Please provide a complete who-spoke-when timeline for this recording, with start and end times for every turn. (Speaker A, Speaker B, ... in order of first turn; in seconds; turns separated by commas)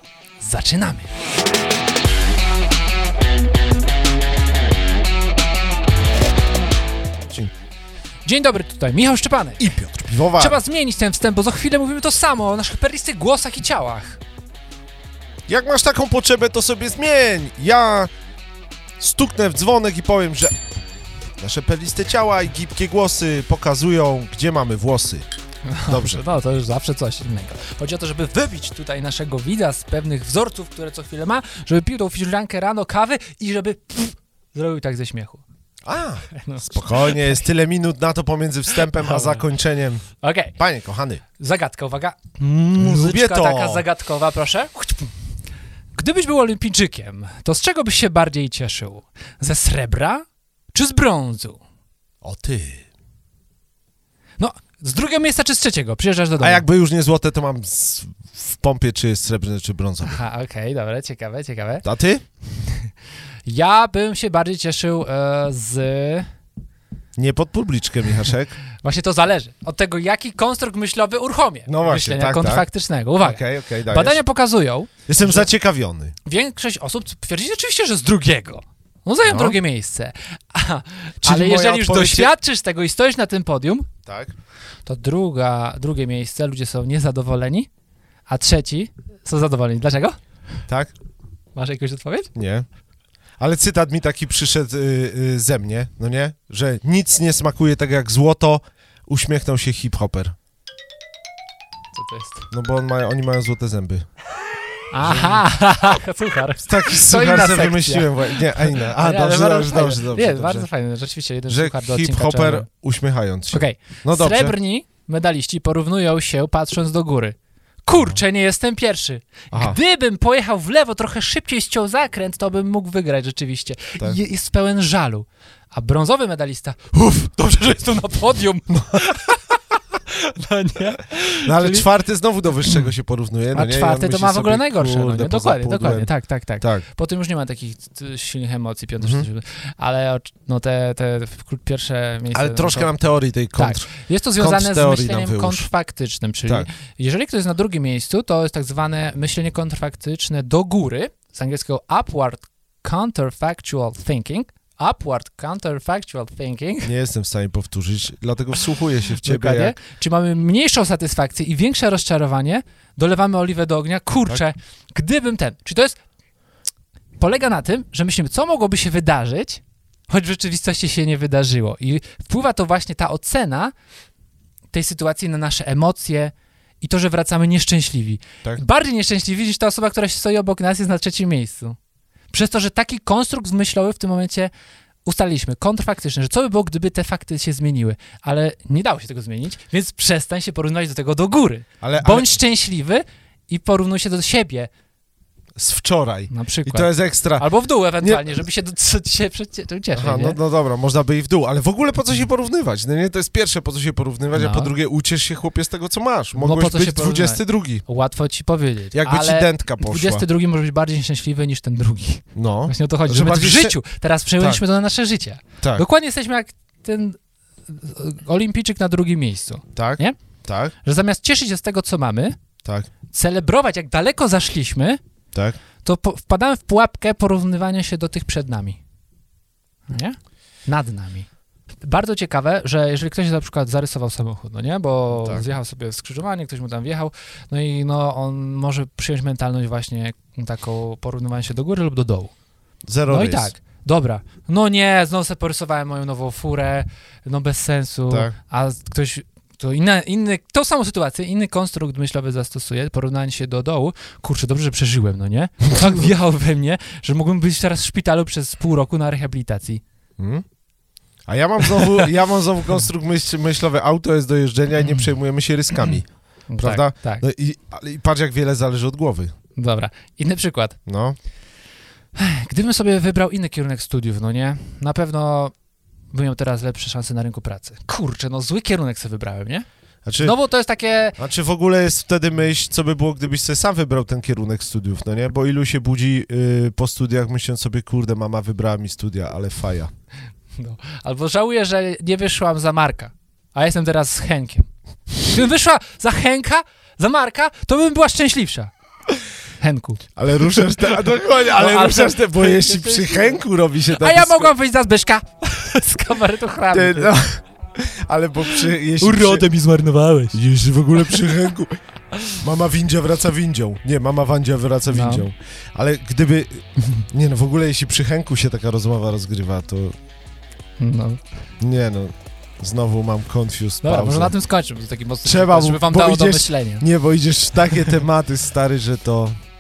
Speaker A: 0.4-1.1, Speaker B: 7.3-7.5, Speaker A: 8.2-9.8, Speaker B: 9.6-10.6, Speaker A: 10.3-14.2, Speaker B: 15.5-18.1, Speaker B: 19.0-20.5, Speaker B: 21.4-25.3, Speaker A: 25.7-35.4, Speaker B: 25.9-26.2, Speaker B: 35.9-41.2, Speaker A: 36.3-37.4, Speaker A: 38.8-39.5, Speaker A: 40.2-40.6, Speaker A: 41.4-45.1, Speaker B: 42.4-43.9, Speaker A: 46.0-51.6, Speaker B: 52.2-52.9, Speaker A: 54.4-56.6, Speaker B: 56.4-60.2, Speaker A: 60.1-61.9, Speaker B: 61.8-62.2, Speaker A: 62.6-62.9, Speaker A: 63.5-66.3, Speaker B: 67.2-68.5, Speaker A: 68.8-75.5, Speaker B: 71.7-72.7, Speaker B: 73.2-74.2, Speaker B: 75.1-76.2, Speaker A: 76.2-83.9, Speaker B: 79.2-79.6, Speaker B: 81.2-82.3, Speaker B: 84.1-84.3, Speaker A: 84.9-87.7, Speaker A: 88.3-90.2, Speaker B: 90.7-90.9, Speaker A: 91.5-92.3, Speaker B: 92.3-92.7, Speaker B: 93.4-100.3, Speaker A: 101.9-102.5, Speaker B: 102.5-104.1, Speaker A: 104.9-112.7, Speaker B: 105.0-105.5, Speaker B: 106.6-110.7, Speaker B: 111.5-114.6, Speaker A: 113.5-131.9, Speaker B: 119.5-119.8, Speaker B: 128.7-129.0, Speaker B: 131.4-136.8, Speaker A: 132.6-132.9, Speaker A: 133.5-142.9, Speaker B: 139.0-139.3, Speaker B: 142.3-145.7, Speaker A: 143.6-156.9, Speaker B: 156.8-159.8, Speaker A: 159.2-166.0, Speaker A: 167.2-173.7, Speaker A: 174.7-181.8, Speaker A: 182.3-184.5, Speaker A: 185.1-194.7, Speaker B: 191.8-192.3, Speaker B: 195.6-197.5, Speaker A: 196.3-200.4, Speaker B: 198.0-198.4, Speaker B: 199.9-207.8, Speaker A: 204.3-204.7, Speaker A: 206.3-220.2, Speaker B: 208.9-210.2, Speaker B: 212.3-213.8, Speaker B: 219.8-220.8, Speaker A: 220.8-222.4, Speaker B: 222.6-222.9, Speaker A: 223.1-225.0, Speaker A: 225.8-228.8, Speaker A: 229.9-231.3, Speaker A: 231.8-242.3, Speaker B: 242.9-243.5, Speaker A: 243.1-259.8, Speaker B: 248.1-248.3, Speaker B: 260.2-260.4, Speaker B: 261.3-266.1, Speaker A: 266.5-267.2, Speaker B: 266.6-269.3, Speaker A: 269.6-270.8, Speaker B: 270.9-271.2, Speaker A: 272.1-275.5, Speaker A: 276.1-279.6, Speaker B: 280.1-280.4, Speaker A: 280.2-281.2, Speaker B: 281.2-289.9, Speaker A: 290.6-298.7, Speaker A: 299.6-307.1, Speaker B: 300.2-304.5, Speaker B: 306.7-309.5, Speaker A: 309.0-310.4, Speaker B: 310.3-311.8, Speaker A: 311.0-311.3, Speaker B: 312.3-319.9, Speaker A: 314.9-315.3, Speaker A: 320.8-321.2, Speaker B: 321.6-324.3, Speaker A: 323.8-326.9, Speaker B: 325.2-329.4